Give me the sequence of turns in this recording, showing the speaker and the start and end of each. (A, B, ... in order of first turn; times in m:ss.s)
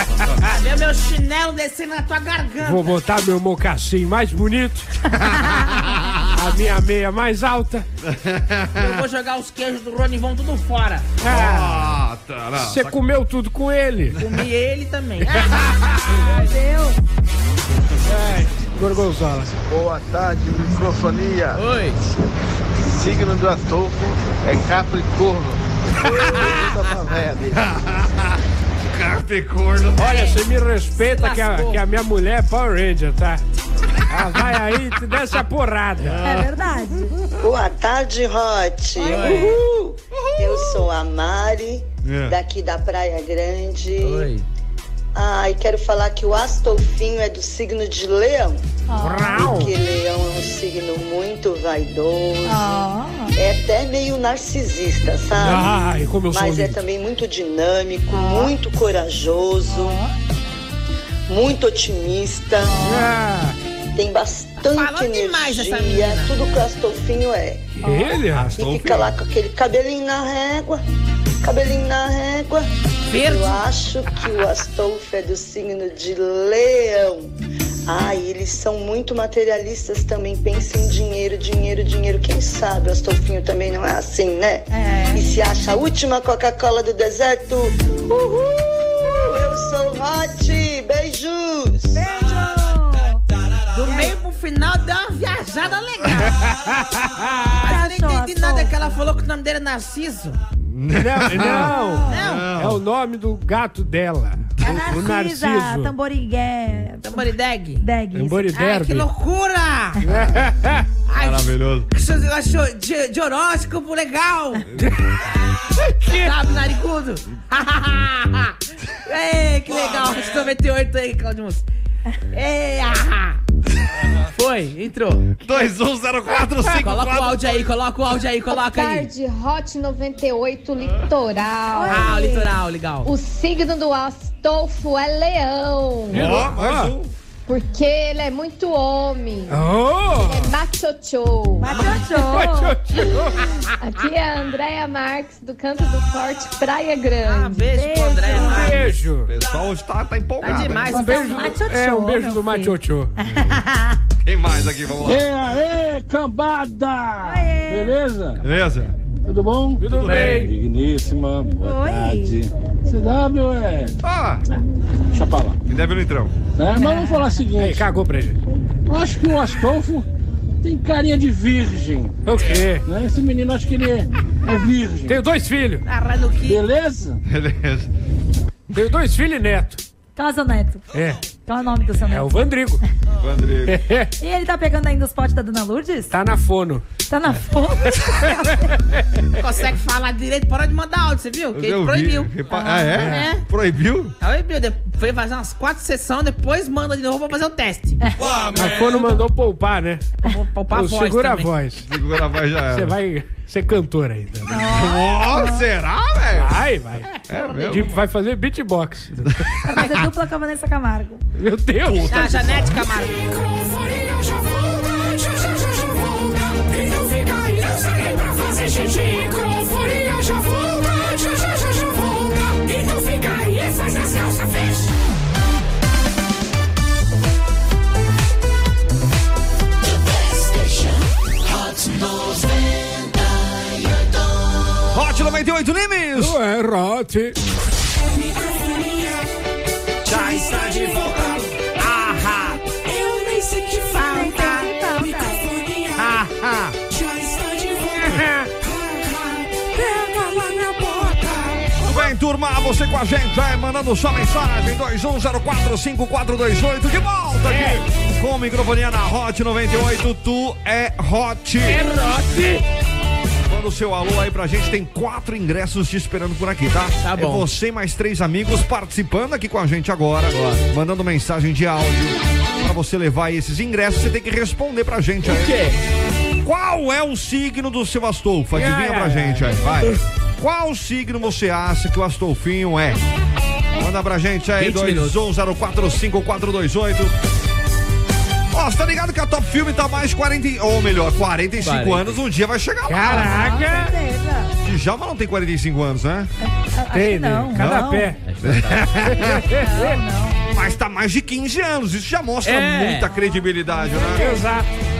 0:00.1-0:00.4 A
0:00.5-0:02.9 B
0:02.6-0:05.0 C
0:05.1-0:06.2 A
0:05.4-0:05.7 D
0:06.3-0:07.9 C
0:08.0-0:09.0 A
0:08.8-0:11.1 B
0:11.2-0:11.9 C
0:11.2-0:13.0 A
0:12.6-0:14.3 C
0:14.2-0:15.8 B
0:15.2-0:16.1 C
0:16.1-0:17.0 D
0:18.0-0:19.5 C
0:19.7-0:21.6 E
0:21.5-0:22.0 B
0:22.9-0:27.6 E
0:26.0-0:26.7 A
0:27.5-0:30.3 A
0:30.0-0:33.4 C
0:30.9-0:31.8 B
0:34.1-0:36.2 C
0:36.0-0:36.5 A
0:36.2-0:37.2 D
0:37.4-0:44.3 F
0:39.0-0:39.7 B
0:39.0-0:39.6 D
0:40.1-0:40.8 A
0:42.0-0:42.3 A
0:44.0-0:44.4 B
0:45.1-0:48.6 F
0:48.9-0:49.4 D
0:49.0-0:49.7 C
0:49.3-1:00.0 F
0:52.4-0:53.3 D
0:55.4-0:56.8 C
0:58.1-0:58.5 D
0:59.7-1:00.1 D
1:01.3-1:02.8 F
1:02.7-1:03.1 D
1:02.8-1:03.6 C
1:03.9-1:07.8 F
1:04.6-1:06.3 B
1:07.8-1:08.1 D
1:07.8-1:08.5 C
1:08.3-1:09.1 A
1:08.6-1:10.8 F
1:11.4-1:17.3 F
1:13.1-1:13.6 B
1:17.8-1:32.0 F
1:24.7-1:25.2 D
1:31.9-1:33.2 D
1:33.7-1:36.3 B
1:33.8-1:34.1 D
1:36.2-1:37.7 C
1:37.6-1:40.4 B
1:37.6-1:38.7 D
1:40.6-1:42.8 A
1:41.0-1:45.9 C
1:42.0-1:42.5 B
1:44.6-1:47.3 D
1:47.0-1:47.8 B
1:47.8-1:48.5 D
1:48.1-1:49.1 C
1:48.5-1:50.0 B
1:50.0-1:50.9 C
1:51.1-1:54.7 B
1:51.1-1:51.9 A
1:54.7-1:54.9 A
1:55.8-1:56.3 C
1:56.1-2:01.6 B
2:02.3-2:03.4 B
2:04.3-2:05.4 B
2:05.4-2:07.6 A
2:06.7-2:09.1 B
2:08.5-2:12.2 G
2:11.7-2:12.5 D
2:11.9-2:13.1 B
2:13.0-2:16.3 G
2:16.1-2:16.9 C
2:16.1-2:17.1 A
2:17.5-2:21.7 G
2:19.5-2:20.5 C
2:21.6-2:22.7 D
2:21.9-2:23.5 C
2:23.8-2:27.6 G
2:27.2-2:29.1 B
2:27.7-2:28.8 D
2:28.3-2:29.3 C
2:29.2-2:30.9 A
2:30.4-2:31.5 B
2:30.9-2:33.1 C
2:30.9-2:34.0 D
2:34.2-2:35.4 A
2:35.0-2:38.4 H
2:37.2-2:38.0 D
2:38.4-2:38.9 A
2:39.2-2:44.0 H
2:39.8-2:40.5 C
2:39.9-2:40.4 A
2:40.0-2:40.5 B
2:41.6-2:42.4 D
2:44.0-2:44.4 A
2:45.1-2:45.6 H
2:45.7-2:46.3 A
2:46.6-2:47.9 H
2:46.7-2:47.3 D
2:47.6-2:48.4 C
2:48.8-2:50.1 H
2:50.6-2:52.2 H
2:52.2-2:52.8 C
2:52.8-2:55.2 H
2:55.1-2:55.8 C
2:55.8-2:56.6 B
2:56.4-2:57.2 H
2:57.2-2:57.9 A
2:58.7-2:59.8 C
3:00.2-3:00.8 D
3:00.9-3:01.2 C
3:01.4-3:02.4 D
3:02.1-3:02.8 C
3:03.2-3:03.8 A
3:03.6-3:04.1 C
3:04.2-3:06.1 D
3:06.1-3:06.8 C
3:07.1-3:08.7 D
3:08.2-3:09.4 C
3:09.4-3:12.5 B
3:11.5-3:14.1 A
3:12.5-3:13.0 D
3:13.0-3:13.3 C
3:13.0-3:13.4 B
3:14.2-3:18.0 B
3:18.2-3:18.9 A
3:18.5-3:20.1 C
3:20.2-3:21.5 B
3:20.7-3:21.8 C
3:21.8-3:23.0 A
3:22.7-3:24.5 C
3:24.5-3:25.6 D
3:24.5-3:26.6 A
3:26.3-3:29.4 C
3:27.3-3:28.0 A
3:27.3-3:27.8 B
3:29.2-3:29.9 A
3:29.6-3:31.2 D
3:31.3-3:32.4 C
3:31.8-3:32.9 A
3:32.1-3:33.2 B
3:33.5-3:44.6 I
3:38.9-3:40.0 C
3:54.9-3:56.4 A
3:56.2-3:57.4 C
3:58.4-3:59.2 I
4:00.1-4:01.4 B
4:00.3-4:01.0 A
4:01.8-4:02.7 A
4:03.0-4:03.6 I
4:03.9-4:05.4 D
4:04.1-4:04.7 B
4:06.0-4:06.8 A
4:07.2-4:07.8 I
4:08.0-4:08.5 C
4:09.7-4:11.3 C
4:11.8-4:21.9 A
4:17.5-4:17.8 C
4:21.7-4:22.6 C
4:21.8-4:22.3 B
4:23.4-4:35.6 A
4:27.0-4:27.5 B
4:30.3-4:30.6 B
4:35.2-4:35.8 B
4:36.4-4:43.0 A
4:38.5-4:39.8 C
4:43.7-4:47.1 A
4:44.6-4:45.2 B
4:48.5-4:53.5 A
4:51.6-4:52.2 B
4:52.8-4:53.9 C
4:53.0-4:54.5 D
4:54.6-4:56.3 A
4:56.4-4:58.1 D
4:56.9-4:58.2 C
4:58.2-4:58.9 B
4:58.4-4:59.5 A
4:59.0-5:00.0 C
4:59.5-5:00.4 D
5:00.5-5:04.4 A
5:02.4-5:03.1 B
5:03.1-5:04.5 D
5:04.1-5:04.7 C